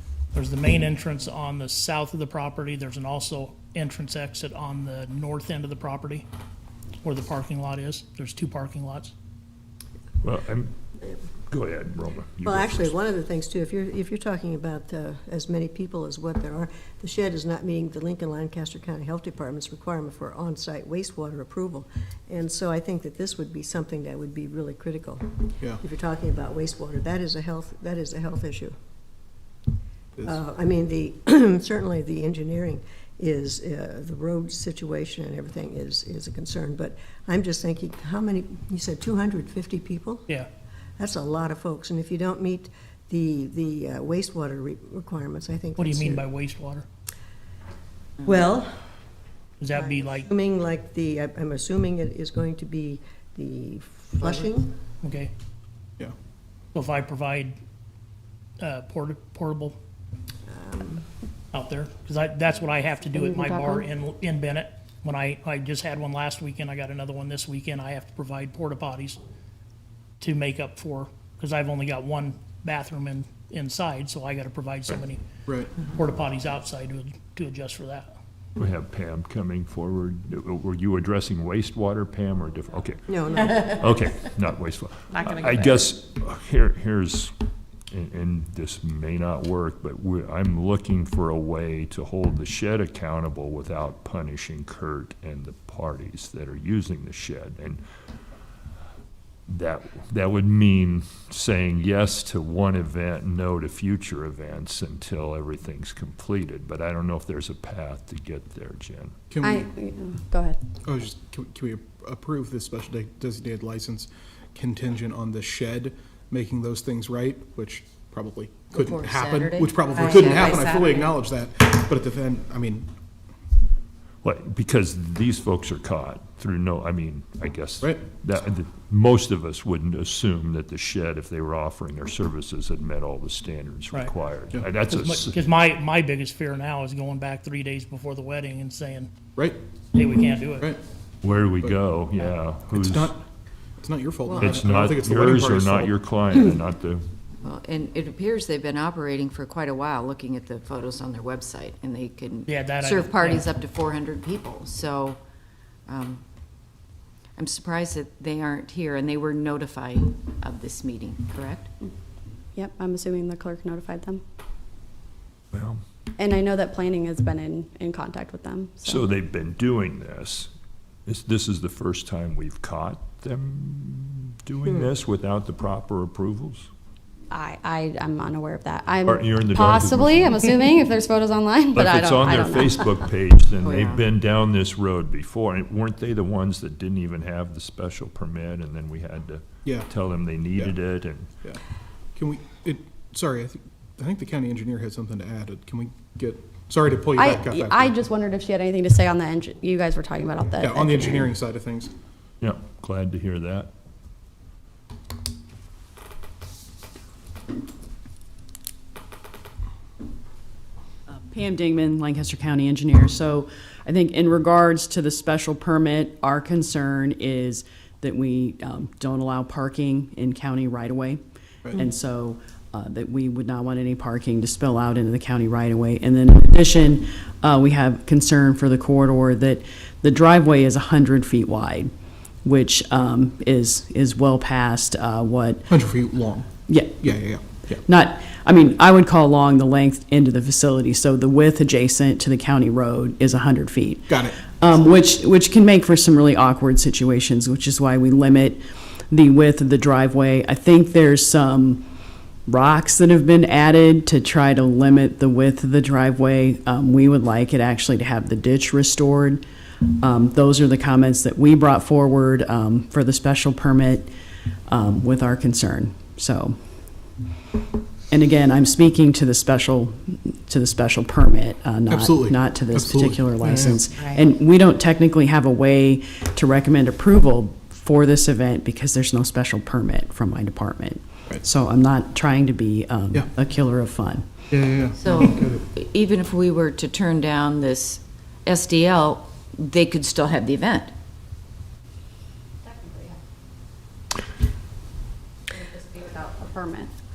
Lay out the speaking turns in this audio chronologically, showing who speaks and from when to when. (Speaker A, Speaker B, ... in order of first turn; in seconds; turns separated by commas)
Speaker A: 0.3-6.2, Speaker A: 7.0-9.1, Speaker B: 10.2-10.7, Speaker B: 11.5-12.9, Speaker C: 12.4-25.2, Speaker C: 25.8-28.7, Speaker C: 30.2-40.3, Speaker C: 41.0-46.2, Speaker A: 45.8-46.9, Speaker C: 48.2-48.9, Speaker A: 49.6-50.3, Speaker C: 49.7-54.7, Speaker A: 55.0-55.3, Speaker A: 56.7-57.6, Speaker A: 58.6-59.8, Speaker C: 60.5-61.0, Speaker A: 61.5-69.2, Speaker D: 63.1-63.8, Speaker A: 70.2-75.3, Speaker A: 75.8-78.1, Speaker B: 78.5-87.3, Speaker C: 83.1-83.9, Speaker B: 87.9-97.8, Speaker B: 99.5-109.1, Speaker E: 109.3-109.7, Speaker D: 109.8-110.5, Speaker E: 110.8-122.9, Speaker F: 118.7-121.1, Speaker B: 124.2-135.4, Speaker A: 134.9-139.1, Speaker A: 139.9-140.7, Speaker B: 141.2-143.1, Speaker E: 142.7-143.2, Speaker E: 143.8-146.0, Speaker B: 144.4-147.0, Speaker F: 147.4-155.2, Speaker A: 152.5-153.5, Speaker F: 155.9-156.2, Speaker F: 157.4-161.7, Speaker D: 162.6-164.2, Speaker B: 165.5-165.8, Speaker D: 166.2-169.0, Speaker B: 168.8-170.5, Speaker B: 171.1-176.7, Speaker D: 177.3-182.9, Speaker B: 179.0-180.7, Speaker B: 181.7-191.3, Speaker F: 183.6-184.0, Speaker E: 189.6-189.9, Speaker E: 192.2-198.0, Speaker D: 197.1-201.2, Speaker E: 200.5-201.9, Speaker B: 202.4-203.7, Speaker G: 211.3-221.2, Speaker G: 221.7-231.9, Speaker G: 232.4-235.8, Speaker E: 235.7-237.8, Speaker G: 236.7-237.2, Speaker G: 237.8-251.9, Speaker E: 244.1-244.4, Speaker G: 252.5-264.1, Speaker G: 264.7-266.6, Speaker G: 268.1-284.2, Speaker E: 271.9-273.8, Speaker F: 274.0-274.2, Speaker E: 284.5-285.6, Speaker F: 284.9-290.9, Speaker D: 292.7-293.1, Speaker D: 295.7-296.9